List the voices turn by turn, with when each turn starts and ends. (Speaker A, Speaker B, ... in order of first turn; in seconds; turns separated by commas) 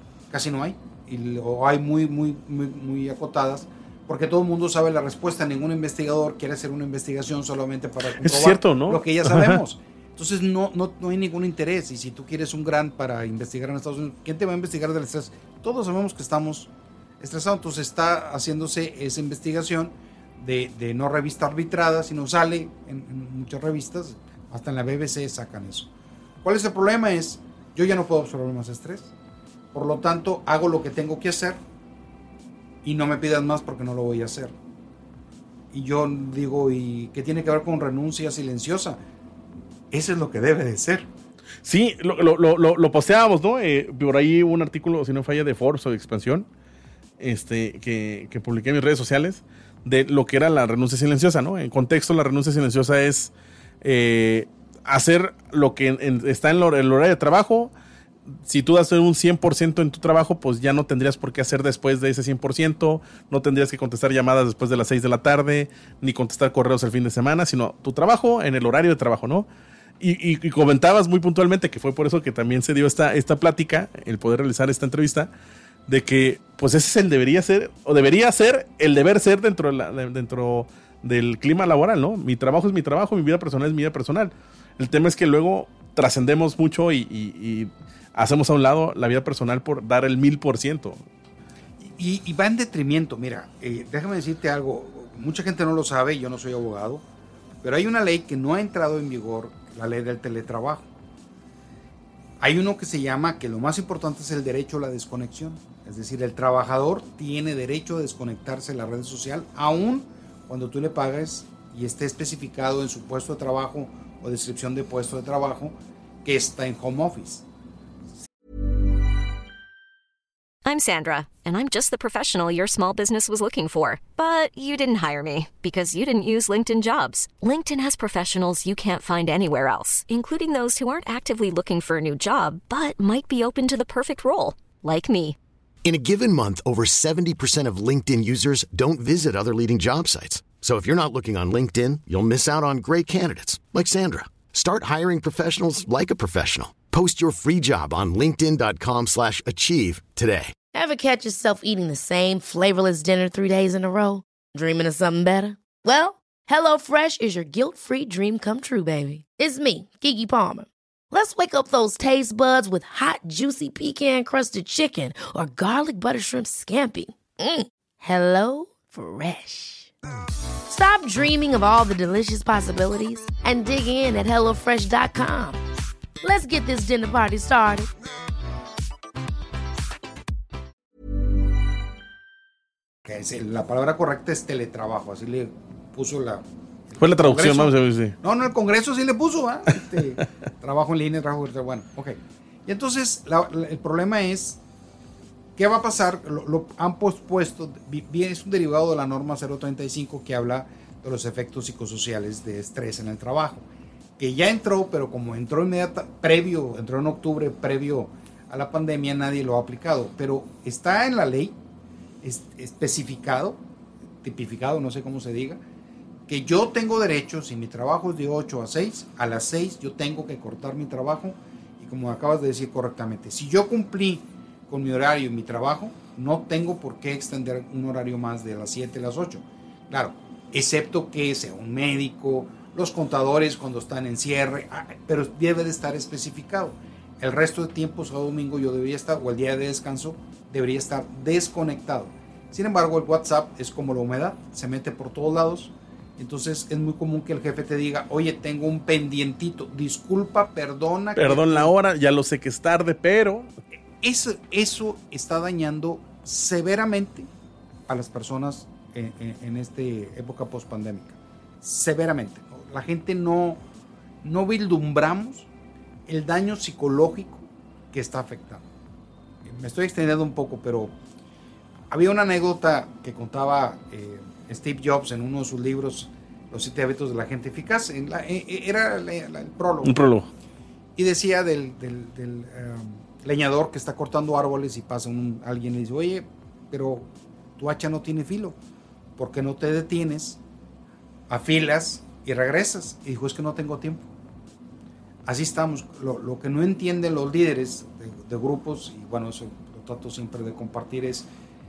Speaker A: 0.3-25.9, Speaker B: 8.2-9.6, Speaker A: 26.4-29.1, Speaker A: 29.7-31.6, Speaker A: 32.8-34.5, Speaker A: 35.7-39.0, Speaker A: 39.9-41.1, Speaker B: 41.6-46.5, Speaker B: 47.2-57.7, Speaker B: 58.5-69.5, Speaker B: 70.0-75.3, Speaker B: 75.9-91.0, Speaker A: 91.8-97.0, Speaker A: 97.6-100.9, Speaker A: 102.4-117.5, Speaker C: 120.7-135.4, Speaker D: 135.8-150.6, Speaker E: 150.7-169.9, Speaker E: 170.7-175.6, Speaker E: 176.2-177.9, Speaker A: 183.1-194.6, Speaker B: 187.0-188.2, Speaker A: 195.6-203.7, Speaker A: 204.2-211.6, Speaker A: 212.2-213.6, Speaker A: 214.2-215.6, Speaker A: 216.3-251.7, Speaker B: 251.2-253.5, Speaker A: 254.0-257.3, Speaker A: 257.9-263.6, Speaker A: 264.2-265.5, Speaker A: 266.1-268.7, Speaker A: 269.4-270.9, Speaker A: 271.9-280.1, Speaker B: 279.8-280.3, Speaker A: 281.0-288.6, Speaker A: 289.2-290.4, Speaker A: 291.3-294.1, Speaker A: 295.3-301.3